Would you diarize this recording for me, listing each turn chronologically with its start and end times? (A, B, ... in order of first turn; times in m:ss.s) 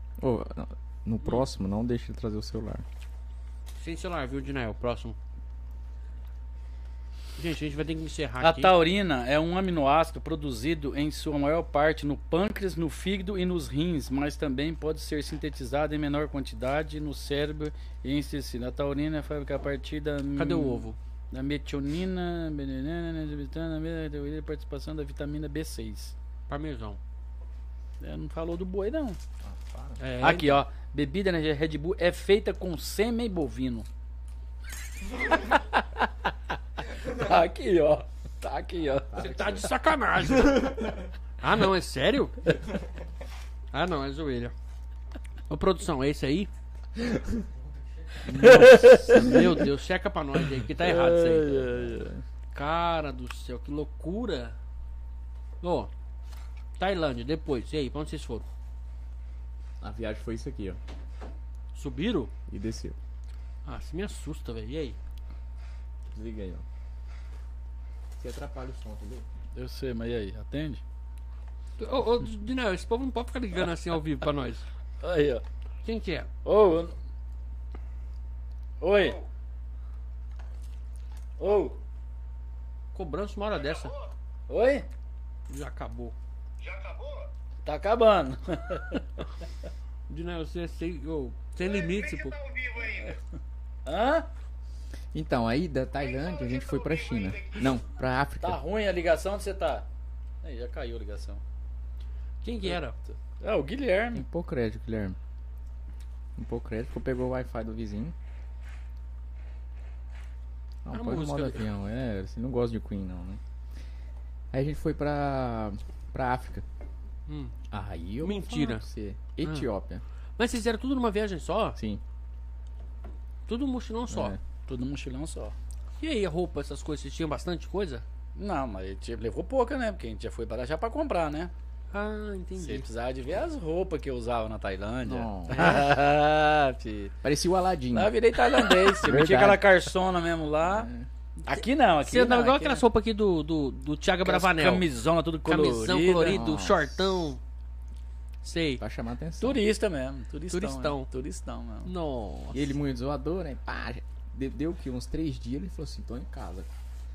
0:00.2-0:02.8 A
0:03.7-0:05.2 B
0:07.4-0:08.8 B
0:08.4-0:26.1 C
0:20.4-0:21.0 B
0:26.5-0:27.0 B
0:28.0-0:29.2 C
0:29.4-0:30.0 A
0:30.0-0:30.6 B
0:30.2-0:33.8 C
0:35.2-0:39.5 C
0:39.1-0:40.8 B
0:39.2-0:39.5 A
0:40.4-0:40.9 A
0:41.4-0:42.6 B
0:43.7-0:44.5 B
0:45.5-0:46.5 B
0:47.1-0:47.4 A
0:48.2-0:51.8 B
0:48.2-0:49.7 C
0:50.8-0:52.1 C
0:51.9-0:52.2 A
0:52.5-0:54.6 B
0:55.6-0:55.9 B
0:56.8-0:58.4 B
0:59.8-1:00.8 A
1:01.7-1:02.3 B
1:02.5-1:03.0 A
1:03.6-1:05.0 B
1:06.1-1:06.6 A
1:08.2-1:09.2 A
1:09.5-1:10.8 C
1:11.8-1:14.6 B
1:15.0-1:15.4 C
1:15.8-1:16.3 B
1:16.4-1:16.9 C
1:18.8-1:19.2 C
1:21.4-1:21.8 C
1:22.9-1:23.9 B
1:23.6-1:24.1 D
1:24.5-1:24.9 C
1:25.5-1:26.1 B
1:26.6-1:27.3 D
1:27.6-1:29.4 C
1:30.1-1:32.4 B
1:31.6-1:33.2 D
1:33.8-1:34.3 C
1:35.1-1:38.6 A
1:36.0-1:37.7 D
1:38.4-1:39.9 C
1:40.4-1:41.4 C
1:42.4-1:43.0 B
1:42.6-1:44.2 C
1:44.1-1:45.2 A
1:46.4-1:48.1 A
1:50.8-1:53.4 A
1:50.9-1:51.6 B
1:54.5-1:56.6 A
1:57.3-1:57.6 B
1:57.7-2:00.0 A
1:58.2-1:58.8 B
1:59.4-1:59.7 B
2:00.4-2:01.8 B
2:01.8-2:02.0 A
2:03.5-2:04.4 B
2:04.1-2:04.4 A
2:04.6-2:05.5 C
2:06.0-2:08.0 B
2:08.4-2:11.5 C
2:11.9-2:12.9 B
2:12.6-2:17.1 C
2:15.0-2:15.9 A
2:17.2-2:18.2 A
2:17.9-2:20.9 C
2:19.0-2:19.7 A
2:20.6-2:21.1 A
2:21.4-2:22.8 C
2:21.5-2:24.9 B
2:24.2-2:26.4 C
2:25.4-2:27.4 B
2:26.2-2:27.3 A
2:28.4-2:28.8 B
2:28.8-2:29.6 A
2:29.4-2:31.9 C
2:30.5-2:31.1 B
2:31.8-2:32.7 B
2:32.5-2:36.7 A